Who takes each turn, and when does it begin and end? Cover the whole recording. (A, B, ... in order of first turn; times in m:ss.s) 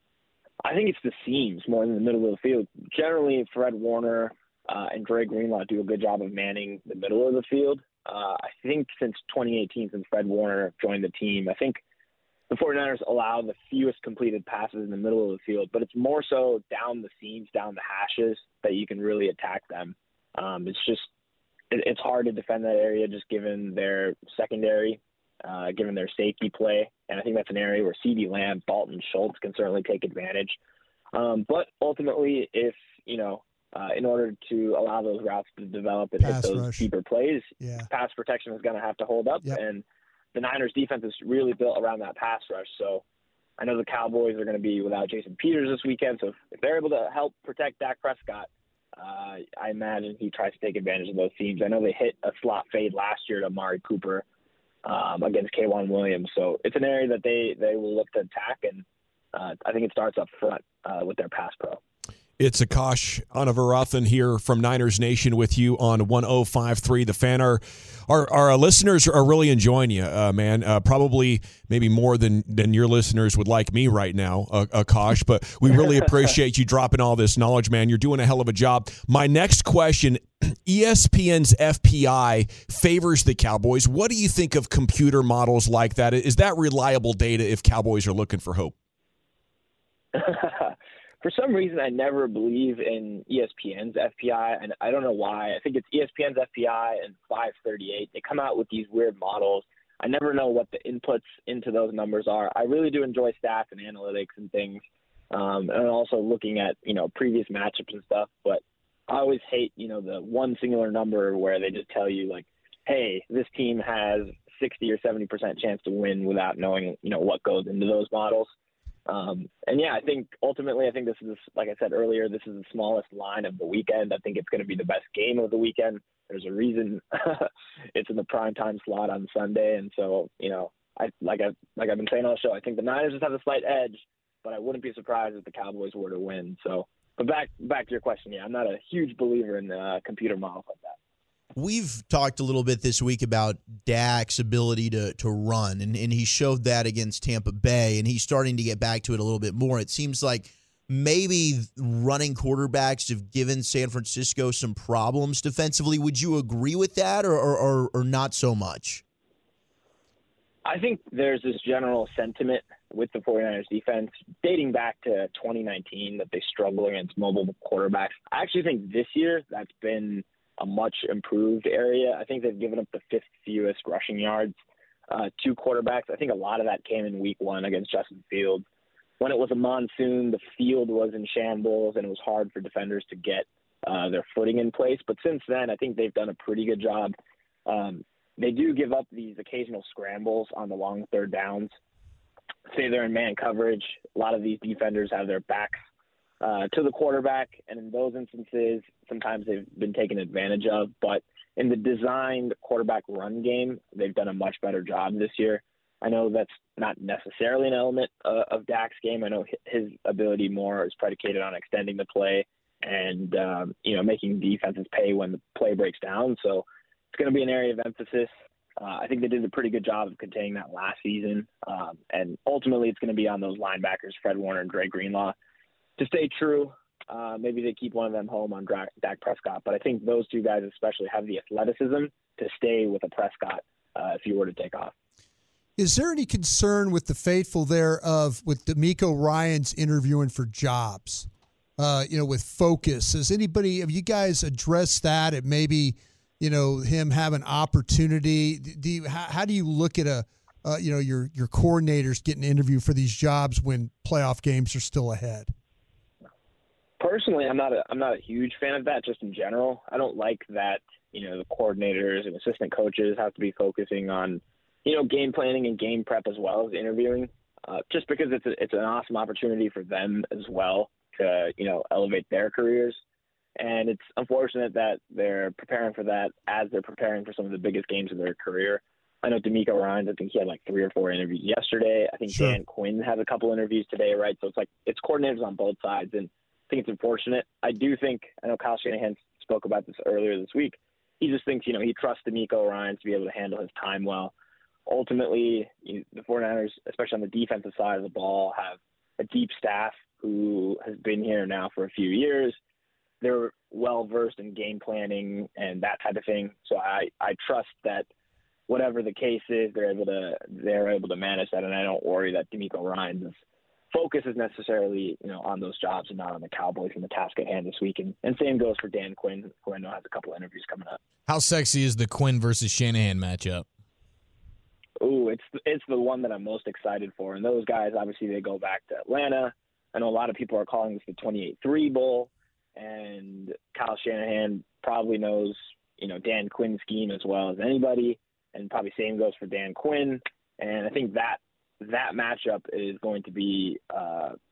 0:00.6-0:11.8 A
0:12.5-0:21.1 A
0:21.7-0:30.6 A
0:31.1-0:43.0 A
0:36.2-0:36.9 B
0:37.6-0:37.9 B
0:43.6-0:54.2 A
0:54.8-1:01.8 A
1:02.4-1:28.7 C
1:30.1-1:58.5 A
1:59.1-2:21.0 A
2:21.6-2:39.0 D
2:40.6-2:54.5 A
2:55.1-2:58.6 A
2:59.2-3:07.2 A
3:07.7-3:11.7 A
3:12.7-3:15.8 A
3:16.4-3:45.4 A
3:46.0-3:54.9 A
3:55.8-4:01.3 B
4:01.8-4:15.5 B
4:17.0-4:33.0 A
4:33.6-4:54.3 A
4:42.3-4:42.6 B
4:54.9-5:02.6 A
5:03.2-5:08.1 A
5:08.7-5:13.4 A
5:13.9-5:21.0 A
5:21.3-5:23.7 E
5:25.0-5:44.4 A